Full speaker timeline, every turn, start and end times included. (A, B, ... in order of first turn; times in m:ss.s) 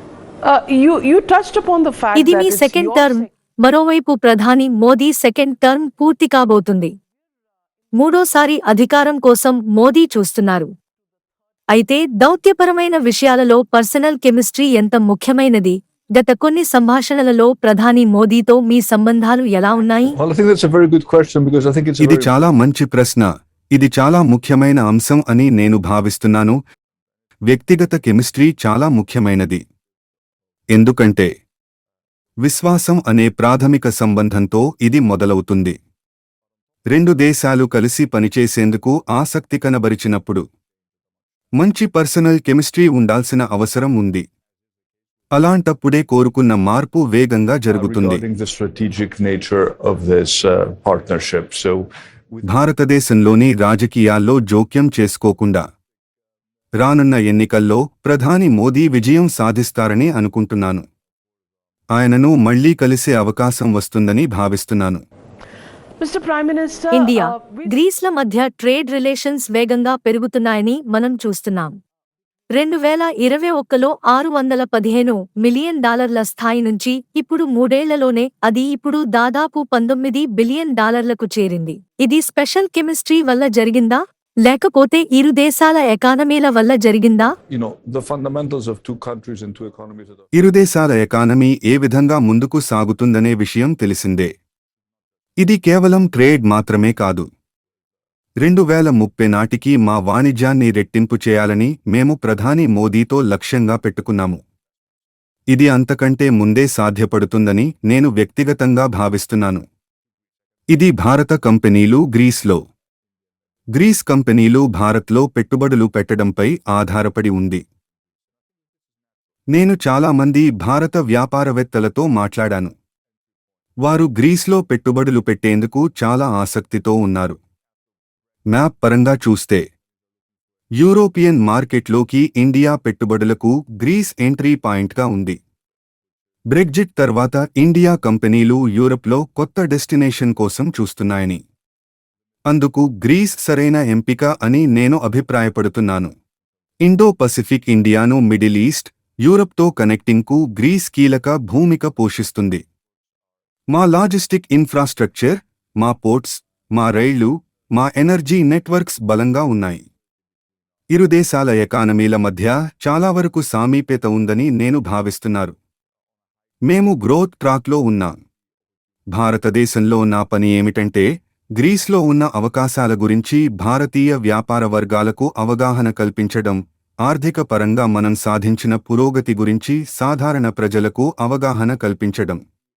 0:00.4-0:03.3 A
0:02.1-0:06.9 B
0:08.0-0:10.7 B
0:11.7-0:20.2 B
0:20.2-0:22.3 C
0:22.0-0:26.6 D
0:27.5-0:29.6 D
0:30.7-0:31.3 D
0:32.4-0:35.7 D
0:36.9-0:40.4 D
0:41.6-0:44.2 D
0:45.3-0:48.2 D
0:47.7-0:52.4 C
0:52.4-0:55.6 D
0:56.8-1:00.8 D
1:01.9-1:05.0 D
1:06.0-1:07.7 A
1:06.9-1:11.7 B
1:12.6-1:27.3 B
1:27.5-1:30.2 C
1:30.3-1:34.3 D
1:35.4-1:37.2 D
1:38.4-1:44.4 D
1:45.5-1:49.6 D
1:50.7-1:52.6 D
1:53.7-1:57.6 D
1:59.5-2:02.7 D
2:03.8-2:07.4 D
2:08.5-2:09.6 D
2:10.8-2:15.4 D
2:16.5-2:21.4 D
2:22.5-2:26.1 D
2:26.8-2:32.6 D
2:33.7-2:39.8 D
2:40.9-2:45.6 D
2:46.7-2:48.2 D
2:49.1-3:02.4 D